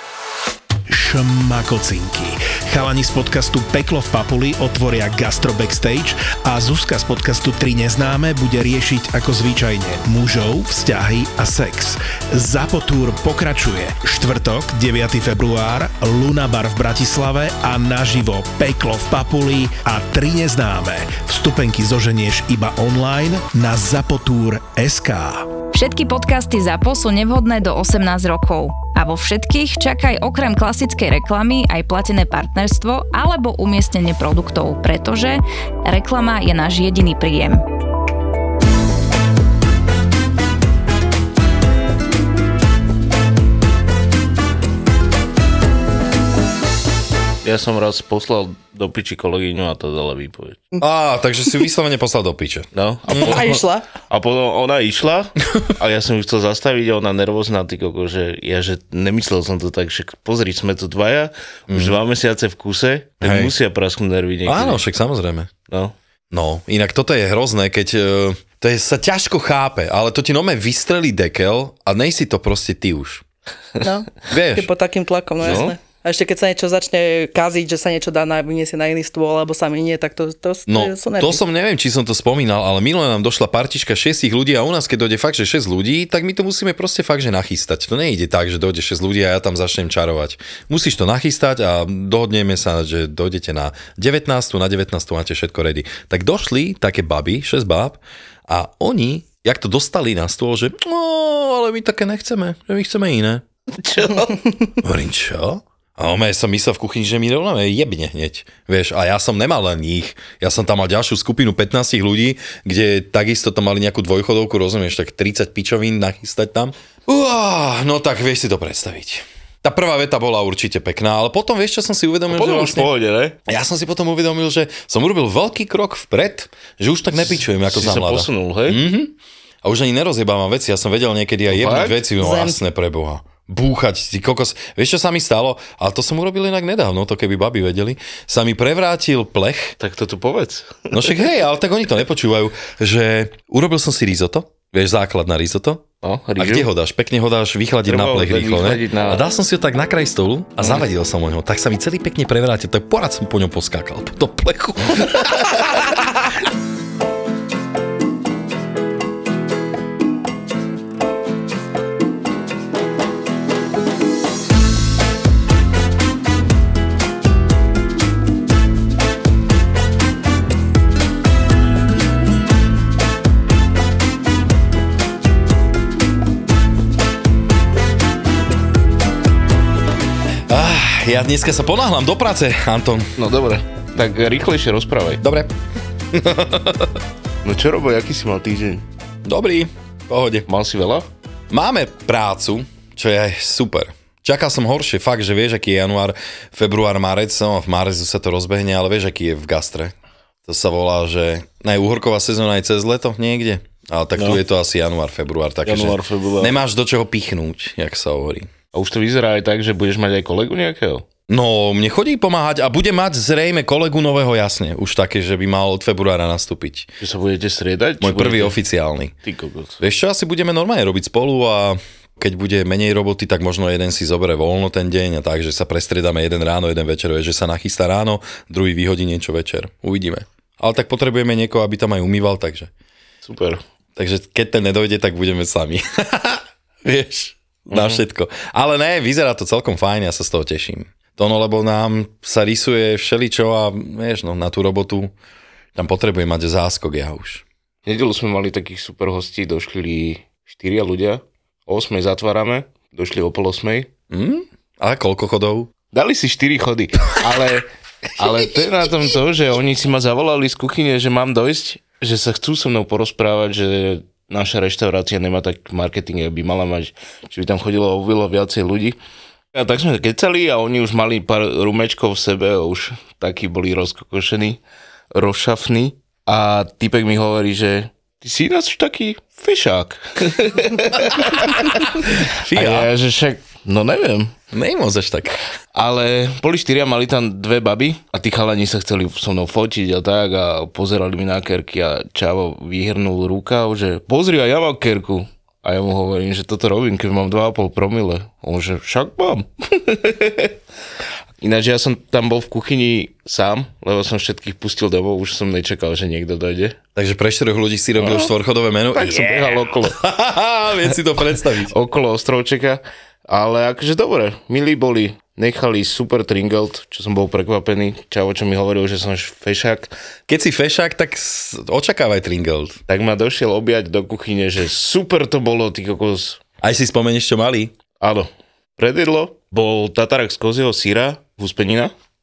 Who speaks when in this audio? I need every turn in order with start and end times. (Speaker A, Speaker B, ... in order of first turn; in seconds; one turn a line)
Speaker A: 0.9-25.5
Speaker B: 25.7-37.6
Speaker C: 47.4-50.7
Speaker D: 50.8-53.5
Speaker C: 52.7-64.8
Speaker E: 53.2-53.9
Speaker D: 61.7-62.0
Speaker D: 63.2-63.5
Speaker D: 64.5-65.5
Speaker C: 65.7-65.9
Speaker D: 66.3-73.2
Speaker E: 73.8-81.4
Speaker D: 74.3-74.7
Speaker C: 75.4-75.7
Speaker D: 80.7-103.4
Speaker C: 103.7-104.5
Speaker D: 104.8-122.9
Speaker C: 122.3-123.4
Speaker D: 123.5-139.8
Speaker C: 127.2-128.8
Speaker C: 131.5-132.0
Speaker E: 132.2-132.6
Speaker C: 139.8-141.3
Speaker D: 140.9-145.8
Speaker C: 146.0-146.7
Speaker D: 146.4-155.9
Speaker C: 147.9-149.2
Speaker D: 180.5-183.1
Speaker C: 183.2-185.2
Speaker D: 185.2-185.5
Speaker D: 186.1-187.0
Speaker C: 187.4-188.8
Speaker D: 189.2-190.5
Speaker C: 190.5-191.1
Speaker D: 191.5-199.9
Speaker D: 200.4-208.5
Speaker C: 205.6-206.6
Speaker C: 208.7-211.0
Speaker D: 211.3-216.9
Speaker C: 217.0-218.6
Speaker D: 218.0-219.2
Speaker C: 219.2-219.8
Speaker D: 219.8-232.7
Speaker C: 233.2-233.6
Speaker D: 233.9-245.1
Speaker C: 237.7-238.0
Speaker D: 245.7-247.4
Speaker C: 247.8-253.9
Speaker D: 254.1-255.7
Speaker C: 255.9-268.9
Speaker C: 269.5-274.6
Speaker C: 275.1-284.3
Speaker D: 281.7-282.9
Speaker D: 284.5-285.4
Speaker C: 285.7-300.5
Speaker C: 301.4-306.8
Speaker D: 306.9-311.7
Speaker C: 308.0-308.3
Speaker C: 308.9-310.0
Speaker C: 311.7-319.9
Speaker D: 320.3-322.8
Speaker C: 322.9-326.4
Speaker D: 326.6-327.7
Speaker C: 328.0-331.9